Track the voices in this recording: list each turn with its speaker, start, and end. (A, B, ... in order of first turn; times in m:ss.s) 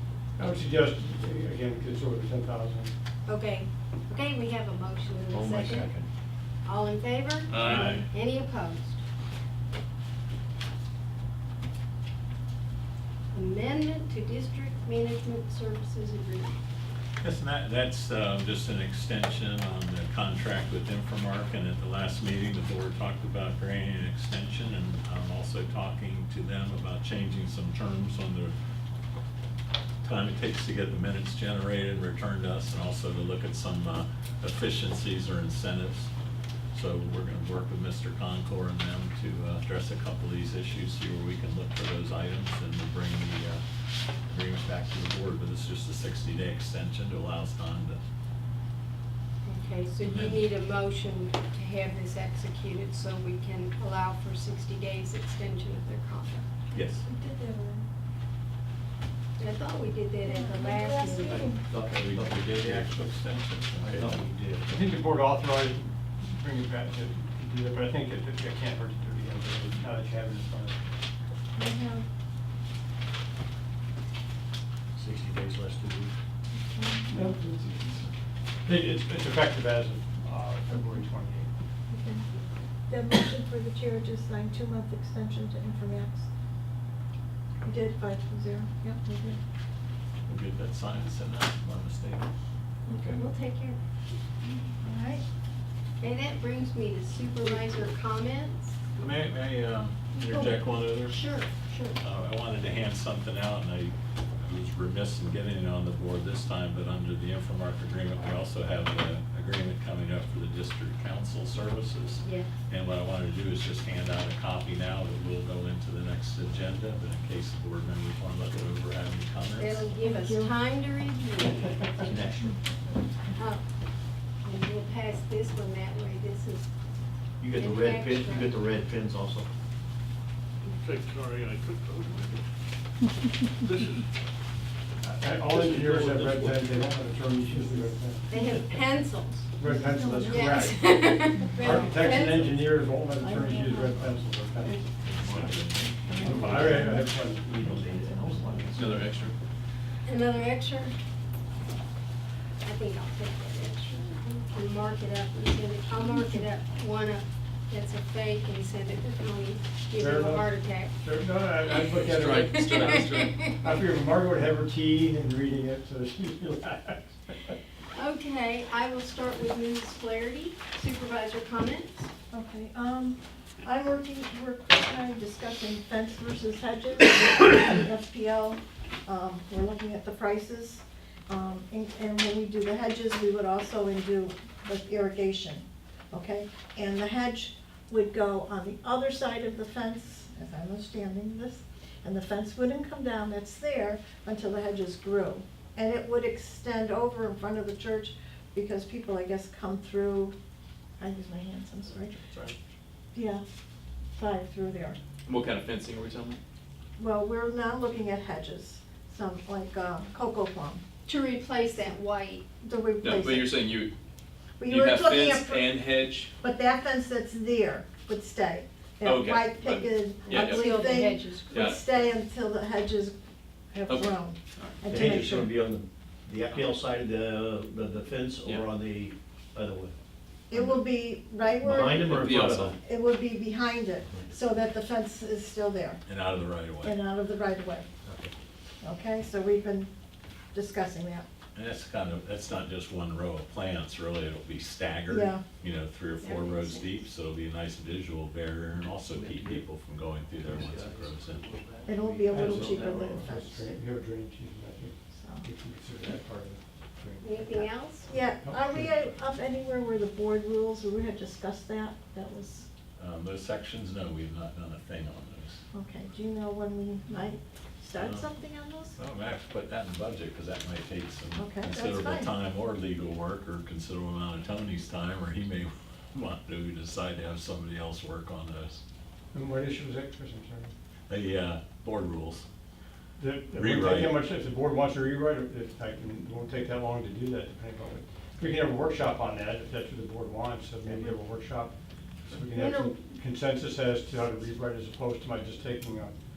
0:00.4-0:02.9 A
0:03.2-0:05.9 B
0:05.3-0:06.0 C
0:06.6-0:09.0 B
0:07.6-0:08.0 D
0:13.3-0:16.6 B
0:17.2-0:28.5 E
0:30.0-0:36.1 E
0:36.7-0:43.6 E
0:44.2-0:48.0 E
0:49.4-0:56.5 B
0:50.0-0:50.5 E
0:56.7-0:57.0 E
0:56.7-0:57.8 F
0:59.4-1:01.4 B
1:00.2-1:01.6 F
1:01.3-1:02.9 C
1:01.9-1:04.2 E
1:03.8-1:04.7 C
1:04.6-1:10.8 A
1:11.6-1:12.0 F
1:14.9-1:16.1 C
1:16.5-1:17.1 F
1:17.1-1:17.5 A
1:17.5-1:18.0 G
1:18.6-1:21.5 A
1:21.9-1:22.2 F
1:22.9-1:26.3 F
1:27.6-1:29.4 F
1:30.2-1:32.2 E
1:32.9-1:33.2 E
1:33.1-1:33.8 B
1:34.4-1:35.2 F
1:36.0-1:38.7 B
1:39.0-1:41.1 E
1:40.2-1:42.0 B
1:42.0-1:59.8 E
1:52.2-1:52.5 B
1:59.6-2:02.1 B
1:59.9-2:00.5 F
2:02.0-2:02.6 C
2:02.4-2:03.3 F
2:03.3-2:03.6 B
2:04.4-2:06.7 B
2:07.4-2:09.5 C
2:07.5-2:08.6 B
2:10.8-2:12.4 D
2:13.6-2:14.1 D
2:15.0-2:18.3 A
2:15.5-2:16.4 D
2:15.6-2:16.6 C
2:18.3-2:19.5 B
2:19.6-2:28.1 A
2:19.6-2:20.6 F
2:20.2-2:22.8 B
2:21.3-2:22.0 F
2:23.1-2:24.1 F
2:25.0-2:26.7 C
2:26.0-2:27.1 F
2:27.6-2:29.1 C
2:27.8-2:28.6 F
2:28.7-2:29.3 G
2:30.0-2:30.9 B
2:32.6-2:40.9 B
2:35.9-2:36.4 F
2:40.0-2:42.8 A
2:41.6-2:43.6 B
2:41.9-2:43.5 G
2:43.4-2:47.5 A
2:47.9-2:52.1 B
2:52.3-3:20.3 F
3:21.0-3:22.2 F
3:21.9-3:22.6 G
3:23.1-3:23.4 F
3:24.1-3:25.0 F
3:25.2-3:26.4 G
3:27.0-3:30.8 F
3:31.0-3:32.4 B
3:32.6-3:33.6 F
3:33.0-3:33.9 G
3:34.6-3:35.8 F
3:34.6-3:36.3 G
3:36.4-3:43.2 F
3:39.0-3:40.6 G
3:40.2-3:41.7 B
3:41.5-3:41.8 G
3:43.7-3:45.6 F
3:43.9-3:44.8 G
3:44.9-3:49.9 C
3:50.5-3:56.0 F
3:51.6-3:52.8 C
3:52.0-3:52.7 G
3:56.0-3:57.0 E
3:56.8-3:57.9 F
3:58.0-3:58.3 C
3:58.8-3:59.9 F
4:00.5-4:01.2 F
4:01.5-4:11.4 E
4:05.1-4:05.4 F
4:06.2-4:07.0 B
4:09.1-4:09.6 C
4:10.5-4:13.4 C
4:11.9-4:13.8 F
4:12.2-4:17.4 A
4:15.1-4:15.5 F
4:17.2-4:18.1 B
4:18.1-4:22.7 F
4:18.2-4:19.1 A
4:23.0-4:25.6 E
4:25.7-4:29.0 F
4:28.0-4:28.3 E
4:29.0-4:38.8 E
4:31.4-4:32.3 F
4:39.3-4:40.7 A
4:41.1-4:42.4 E
4:43.2-4:51.7 A
4:43.5-4:44.2 E
4:52.2-4:56.1 A
4:52.4-4:52.9 B